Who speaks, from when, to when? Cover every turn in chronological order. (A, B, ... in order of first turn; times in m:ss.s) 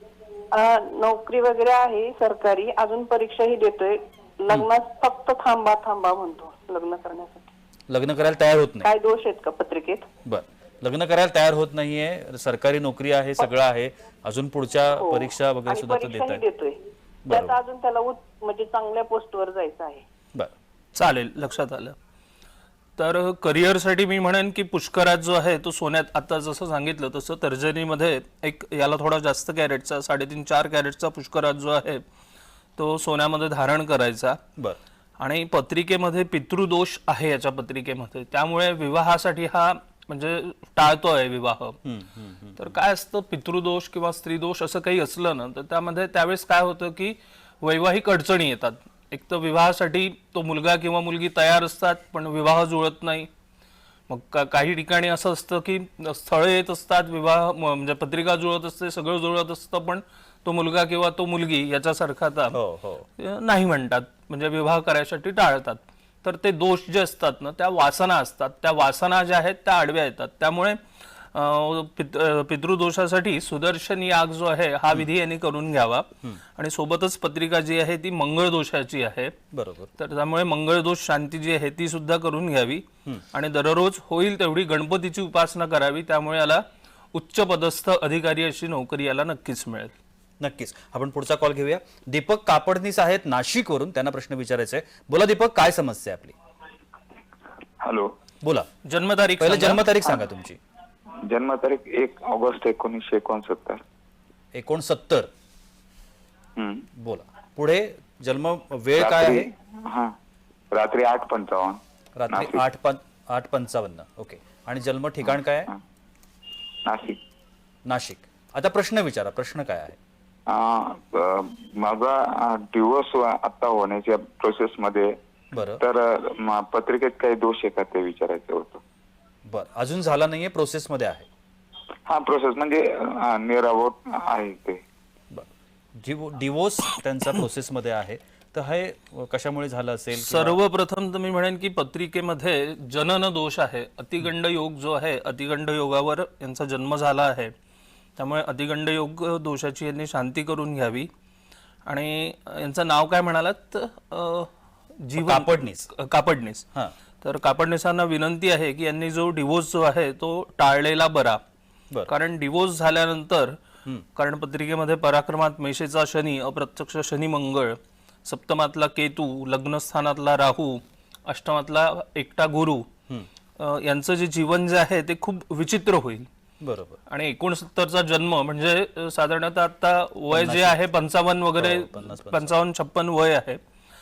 0:00.5-0:07.5 A
0:07.9-0:08.9 B
0:08.8-0:10.1 A
0:10.2-0:16.4 B
0:14.9-0:20.0 A
0:17.2-0:17.6 B
0:21.0-0:22.0 C
0:23.0-0:32.0 C
0:32.8-0:34.4 C
0:35.2-0:41.8 C
0:41.8-0:42.7 B
0:42.6-0:53.3 C
0:54.1-1:02.6 C
1:02.5-1:03.0 B
1:03.2-1:10.8 C
1:11.3-1:19.3 C
1:19.5-1:19.9 B
1:20.0-1:29.9 C
1:30.4-1:36.3 B
1:37.8-1:38.1 D
1:38.4-1:38.7 B
1:38.8-1:39.8 C
1:39.4-1:40.6 B
1:41.3-1:43.8 D
1:44.5-1:45.3 B
1:46.6-1:46.8 D
1:46.9-1:49.5 B
1:49.0-1:50.1 D
1:50.7-1:52.6 D
1:52.2-1:55.7 B
1:56.8-1:57.2 D
1:57.8-2:00.0 B
2:00.5-2:05.1 D
2:05.5-2:05.8 B
2:05.8-2:08.8 D
2:09.4-2:11.2 B
2:12.1-2:14.8 D
2:15.3-2:20.6 B
2:20.1-2:27.5 C
2:28.2-2:31.1 C
2:31.9-2:36.6 C
2:35.2-2:35.9 B
2:37.2-2:41.4 C
2:42.1-2:43.6 C
2:44.2-2:52.9 C
2:53.6-2:56.3 C
2:56.6-2:57.0 B
2:57.1-3:03.6 C
3:00.3-3:00.8 B
3:01.6-3:02.6 B